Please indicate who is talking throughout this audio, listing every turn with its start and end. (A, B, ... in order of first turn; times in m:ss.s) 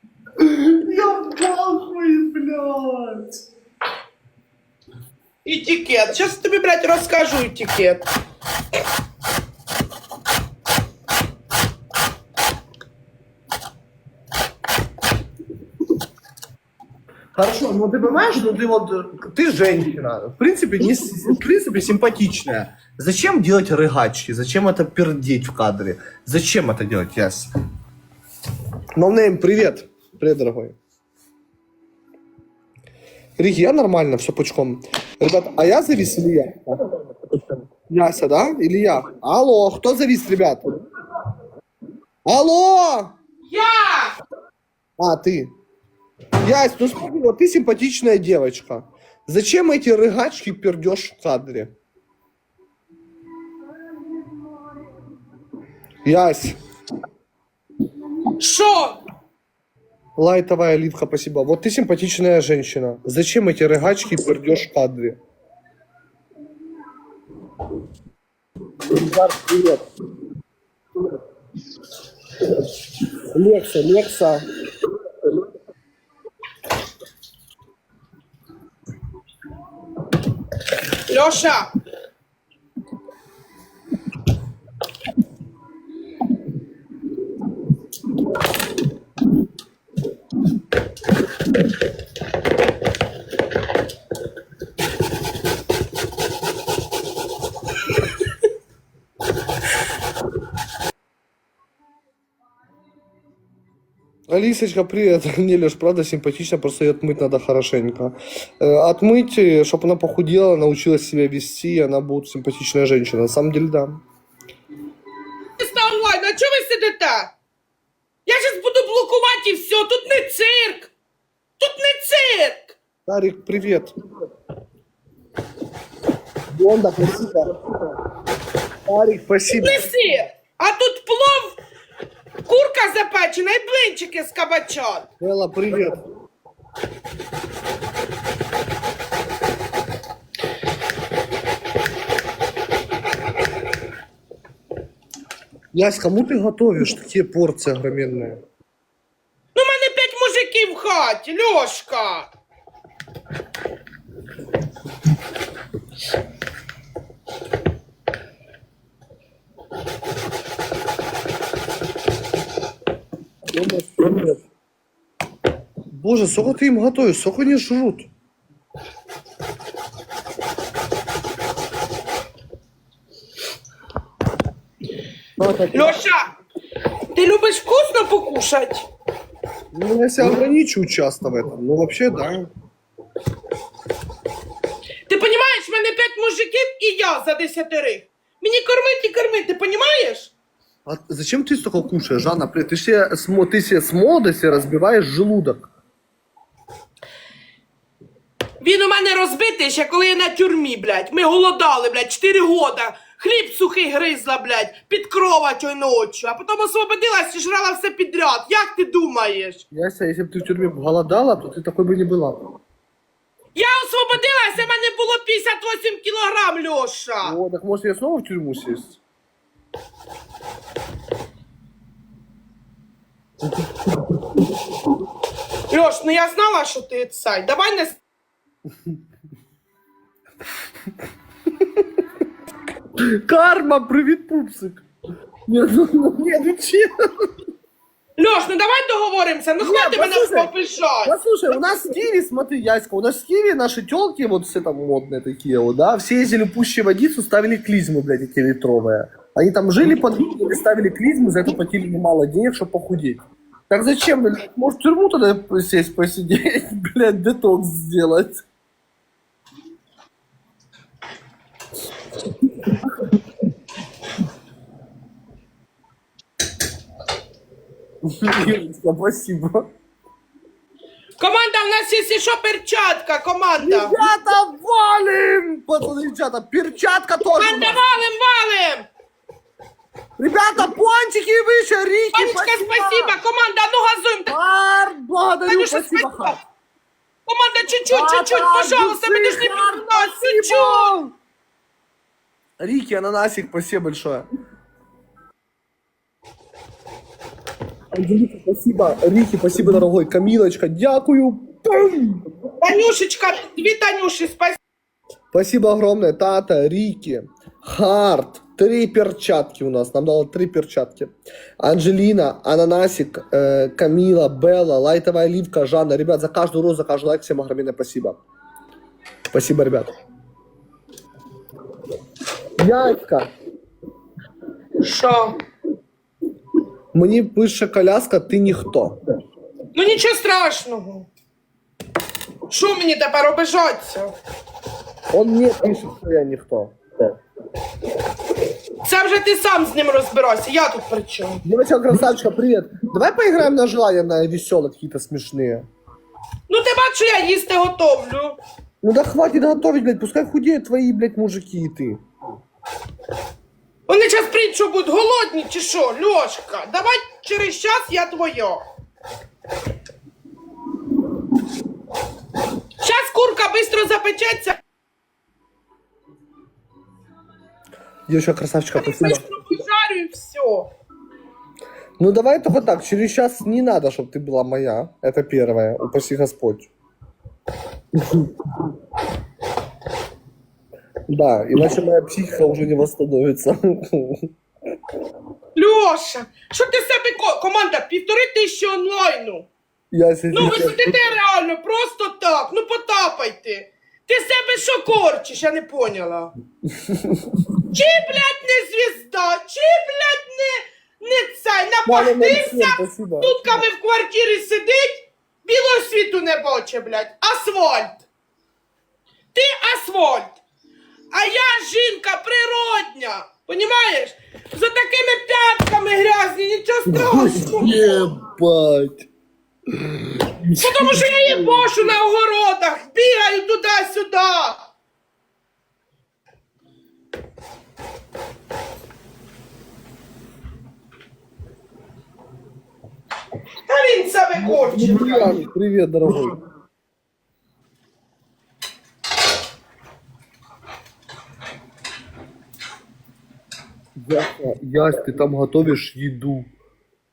0:00.4-0:03.4 A
0:05.4-0:08.0 B
0:17.3-0:27.5 A
0:28.9-0:30.8 A
0:33.4-0:36.8 A
0:37.9-0:40.6 A
0:42.2-0:43.1 A
0:43.4-0:44.1 B
0:45.0-0:45.5 A
0:46.4-0:51.7 A
0:56.0-0:56.5 A
0:58.4-0:59.0 B
1:00.2-1:05.2 A
1:08.9-1:09.8 A
1:13.3-1:14.4 A
1:21.1-1:21.7 B
1:44.3-1:54.0 A
1:55.6-1:57.3 B
1:58.2-2:00.9 B
2:01.6-2:02.7 B
2:03.0-2:03.9 A
2:06.5-2:07.5 A
2:08.8-2:09.8 A
2:09.6-2:11.6 B
2:12.4-2:15.0 B
2:15.2-2:16.0 A
2:25.7-2:28.4 A
2:29.5-2:32.3 B
2:43.5-2:44.4 A
2:45.9-2:48.1 A
2:55.4-2:56.0 A
2:55.7-2:56.3 B
2:57.1-2:58.9 B
2:59.7-3:02.5 A
3:05.1-3:10.3 B
3:10.8-3:15.7 A
3:18.6-3:29.6 B
3:29.7-3:32.4 A
3:33.5-3:37.4 B
3:37.2-3:39.0 A
3:45.7-3:48.0 B
3:53.1-3:54.8 A
3:55.5-3:56.9 A
3:58.2-4:01.2 B
3:59.6-4:00.5 A
4:01.0-4:18.4 A
4:28.1-4:29.7 A
4:31.2-4:34.0 B
4:33.6-4:37.8 A
4:37.3-4:38.9 B
4:40.2-4:43.2 A
4:42.1-4:44.3 B
4:44.3-4:46.4 A
4:45.5-4:46.4 B
4:47.3-4:50.9 B
4:47.8-4:51.1 A
4:52.6-4:54.2 A
4:57.9-5:02.2 A
5:02.6-5:04.6 B
5:05.3-5:18.2 A
5:19.3-5:19.9 A
5:22.6-5:23.3 A
5:24.8-5:25.4 B
5:26.9-5:29.0 A
5:29.7-5:31.1 B
5:32.5-5:34.1 B
5:35.1-5:36.7 A
5:38.8-5:41.4 B
5:41.4-5:45.6 A
5:46.5-5:48.4 B
5:48.8-5:52.0 A
5:53.9-5:58.6 B
6:02.8-6:04.6 B
6:08.1-6:09.2 A
6:08.7-6:10.7 B
6:12.0-6:16.7 A
6:21.1-6:24.2 A
6:25.6-6:29.5 B
6:29.9-6:31.0 A
6:30.3-6:36.3 B
6:36.9-6:37.2 A
6:37.7-6:48.0 B
6:41.8-6:43.7 A
6:49.3-6:50.4 B
6:51.1-6:58.1 B
6:56.9-6:59.1 A
7:00.2-7:01.7 A
7:00.5-7:04.6 B
7:13.7-7:15.4 B
7:14.4-7:16.4 A
7:24.0-7:26.5 A